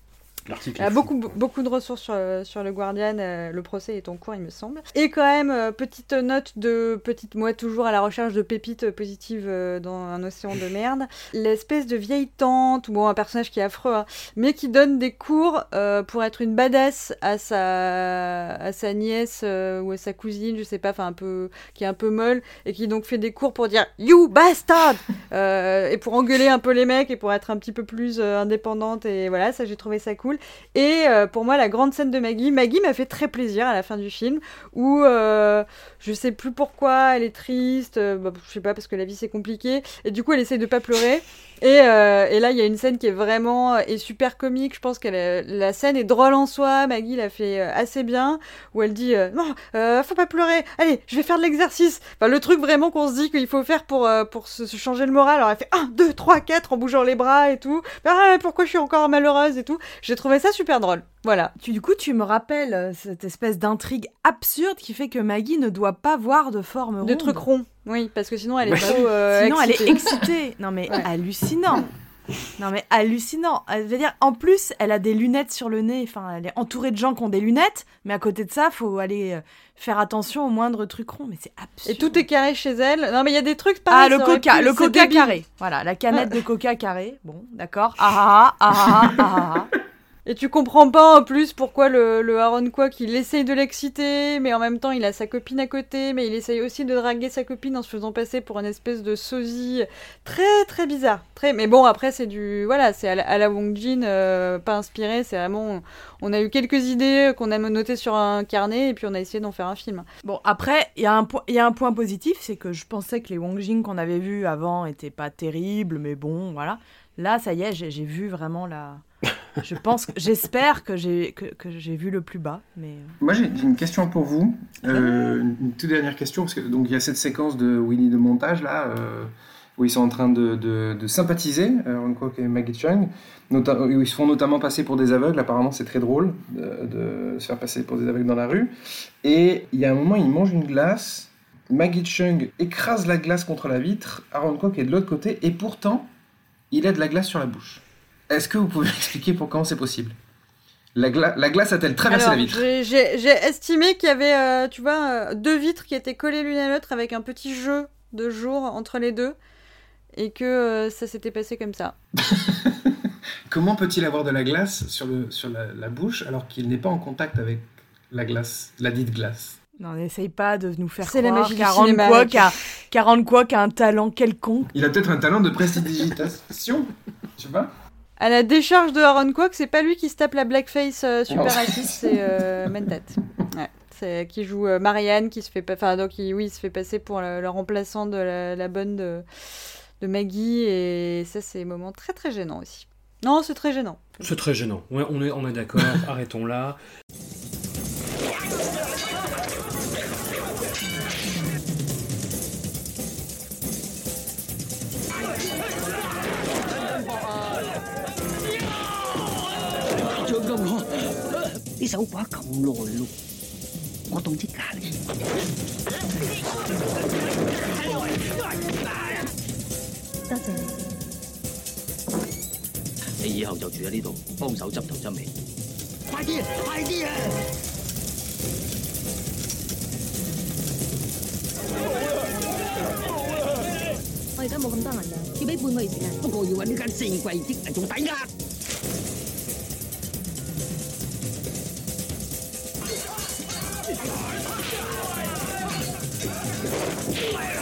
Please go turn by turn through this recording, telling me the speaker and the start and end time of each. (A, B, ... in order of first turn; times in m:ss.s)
0:00.5-0:01.3 A
0:00.8-1:01.5 B
1:01.6-1:07.4 C
1:07.0-1:10.2 B
1:08.6-1:09.0 A
1:08.8-1:11.9 C
1:12.6-1:22.2 C
1:21.8-1:25.3 B
1:23.9-1:29.7 C
1:30.3-1:50.1 B
1:50.2-1:59.0 C
1:59.6-2:03.1 C
2:03.2-2:18.7 D
2:19.2-2:26.1 D
2:26.7-2:30.2 D
2:31.0-2:32.6 D
2:32.1-2:39.4 B
2:40.1-2:42.0 B
2:42.2-2:49.6 D
2:49.8-2:54.7 C
2:51.0-2:52.5 B
2:54.7-2:57.7 D
2:58.2-3:09.2 B
3:01.3-3:02.2 D
3:10.0-3:14.3 B
3:14.2-3:16.8 A
3:30.3-3:30.8 E
3:31.8-3:33.1 E
3:34.1-3:35.0 E
3:40.3-3:40.7 F
3:43.2-3:45.3 E
3:46.1-3:47.2 E
3:54.4-3:56.3 F
3:56.2-3:58.3 E